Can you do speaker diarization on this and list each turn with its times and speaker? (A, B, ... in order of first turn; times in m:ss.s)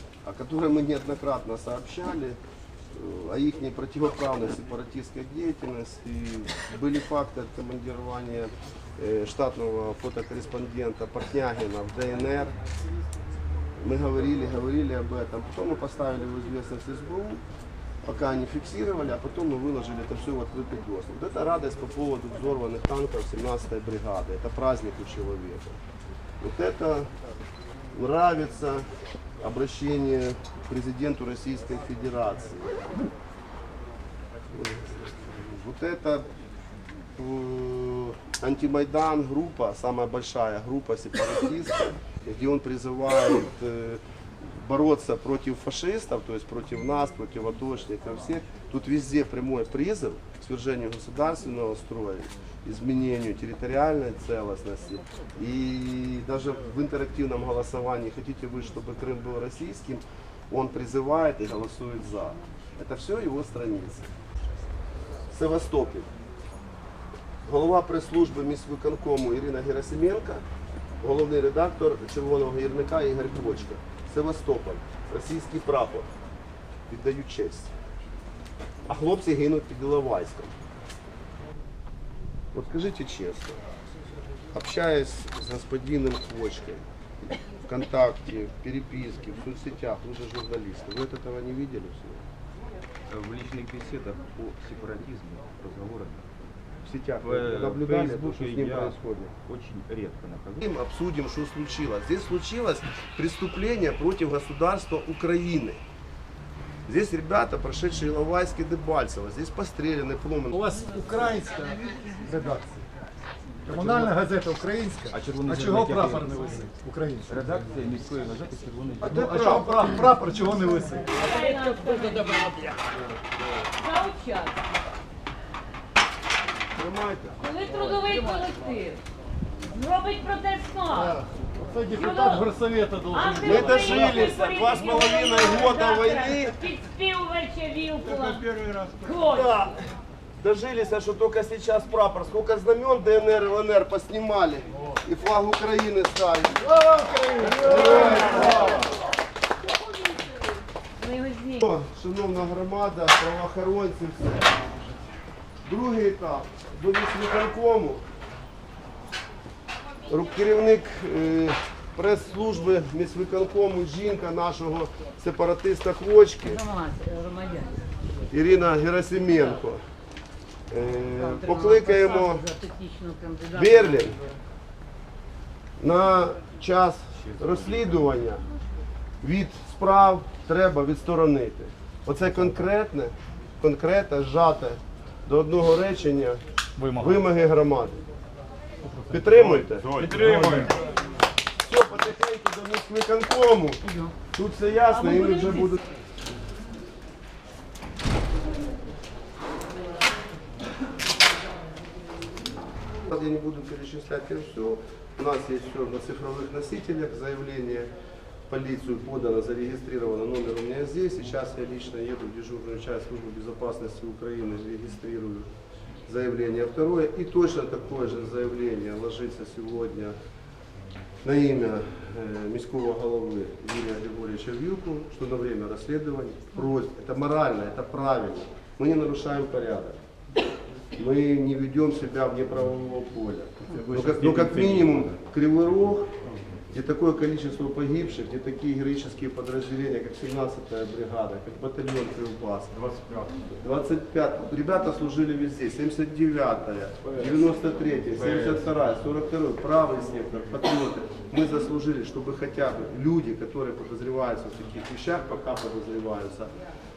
0:00.2-0:02.4 A
0:02.9-0:12.5 A
0:13.8-0:17.4 A
0:18.0-0:25.8 A
0:26.4-0:27.1 A
0:27.9-0:28.9 A
0:29.4-0:32.8 A
0:34.5-0:36.3 A
0:37.2-1:04.1 A
1:05.3-1:06.1 A
1:07.4-1:10.4 A
1:11.0-1:16.1 A
1:16.9-1:17.7 A
1:18.9-1:20.5 A
1:22.5-1:23.6 A
1:24.5-1:26.8 A
1:27.6-1:32.2 A
1:33.1-1:36.3 B
1:36.8-1:39.3 A
1:37.2-1:40.7 B
1:40.6-1:45.8 A
1:46.9-1:51.2 A
1:50.5-1:52.8 C
1:53.6-1:54.1 B
1:53.7-1:57.6 C
1:55.1-1:56.5 B
1:57.3-1:59.4 B
1:59.0-1:59.9 A
1:59.1-2:01.3 C
2:01.1-2:02.6 D
2:01.9-2:02.8 C
2:03.7-2:04.6 D
2:06.7-2:07.4 A
2:07.4-2:09.0 D
2:09.6-2:11.2 D
2:10.9-2:14.3 C
2:11.9-2:12.5 D
2:13.1-2:19.5 D
2:13.4-2:16.6 A
2:19.1-2:19.8 A
2:20.4-2:28.8 A
2:26.8-2:28.3 C
2:31.0-2:31.6 D
2:31.6-2:34.6 A
2:35.6-2:38.0 A
2:40.1-2:46.6 A
2:46.4-2:47.8 D
2:48.3-2:49.8 A
2:50.7-2:52.5 A
2:51.2-2:54.1 D
2:53.5-2:54.2 A
2:55.8-2:58.4 A
2:57.2-2:58.2 B
2:59.2-3:08.0 A
3:09.1-3:10.5 A
3:09.3-3:10.8 B
3:10.2-3:10.7 C
3:11.6-3:15.8 A
3:13.8-3:14.1 D
3:15.0-3:15.8 D
3:22.9-3:27.9 A
3:28.5-3:35.5 A
3:36.1-3:40.1 A
3:41.2-3:50.0 A
3:50.9-3:56.1 A
3:53.6-3:55.2 B
3:56.7-4:02.8 A
4:02.7-4:03.4 B
4:03.6-4:16.5 A
4:07.0-4:07.4 B
4:08.1-4:08.7 B